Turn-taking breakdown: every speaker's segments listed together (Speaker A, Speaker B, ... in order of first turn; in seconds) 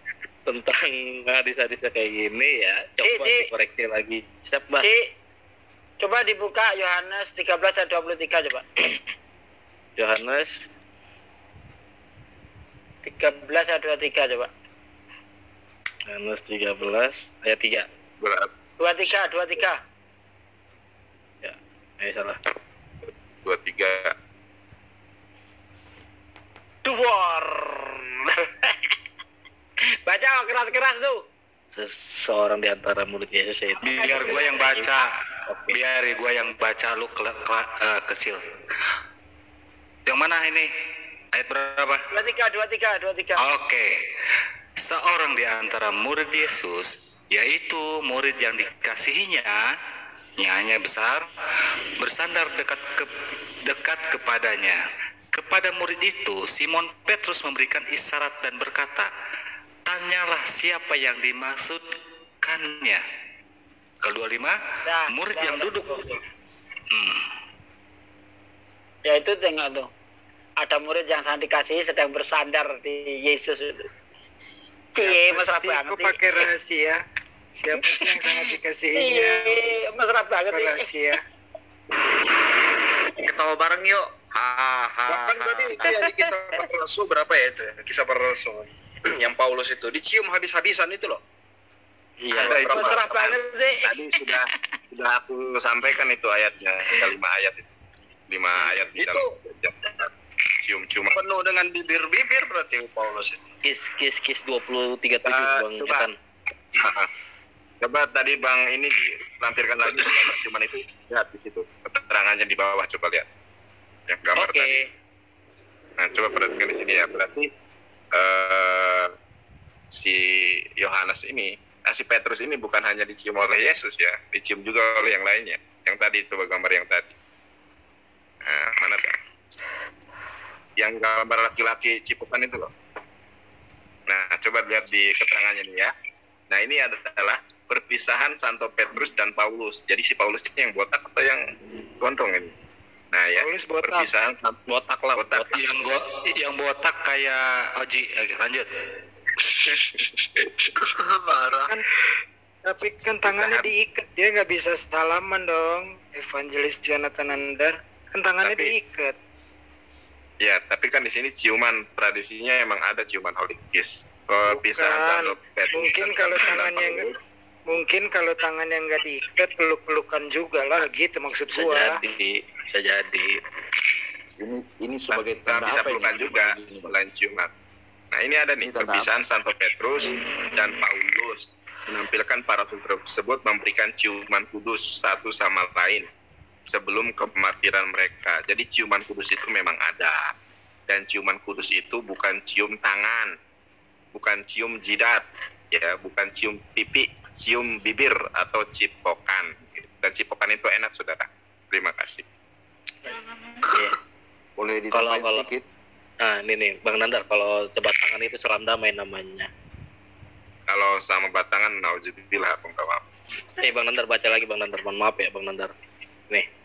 Speaker A: 0.5-4.9, 10.0-10.7, 16.1-17.9, 21.4-22.4, 31.8-35.8, 92.2-92.8, 103.6-106.2, 114.4-114.8, 144.7-145.6, 171.5-173.3, 203.7-203.9, 204.9-205.5, 206.2-209.5, 213.6-215.7
Speaker B: 3.0-3.5, 4.8-5.1, 6.0-8.6, 13.0-14.5, 18.8-19.8, 26.8-28.8, 30.1-31.2, 42.1-43.4, 64.9-66.1, 69.1-69.9, 70.6-73.9, 75.0-76.2, 79.0-80.9, 92.7-94.4
Speaker C: 18.2-18.5, 23.4-24.1, 92.3-97.7, 98.3-100.1, 100.6-101.2, 105.3-106.1, 106.8-107.1, 107.8-113.3, 114.1-114.9, 116.0-117.5, 118.1-119.1, 119.9-127.1, 128.5-129.1, 130.8-132.7, 134.1-135.9, 136.5-142.5, 143.1-144.6, 145.2-145.9, 153.3-153.6, 158.4-158.7, 160.4-167.2, 175.1-177.5, 178.1-186.1, 186.7-190.3, 190.9-193.3, 194.1-202.2, 210.7-213.1
Speaker D: 33.8-35.1, 35.7-38.4, 40.1-40.7, 41.3-42.0, 43.4-44.0, 44.8-49.7, 50.4-51.3, 52.0-53.1, 53.6-54.8, 55.3-59.1, 59.9-61.9, 62.4-63.0, 64.0-64.5, 65.1-66.0, 66.9-67.3, 145.5-148.7
Speaker E: 75.0-77.0, 77.6-79.6, 80.5-81.2, 143.4-144.1, 152.7-159.2, 164.5-167.1, 167.7-172.0
Speaker F: 83.2-86.0
Speaker G: 85.1-91.2, 99.0-99.3, 101.1-103.5
Speaker H: 174.4-176.9, 178.6-179.1, 204.6-205.7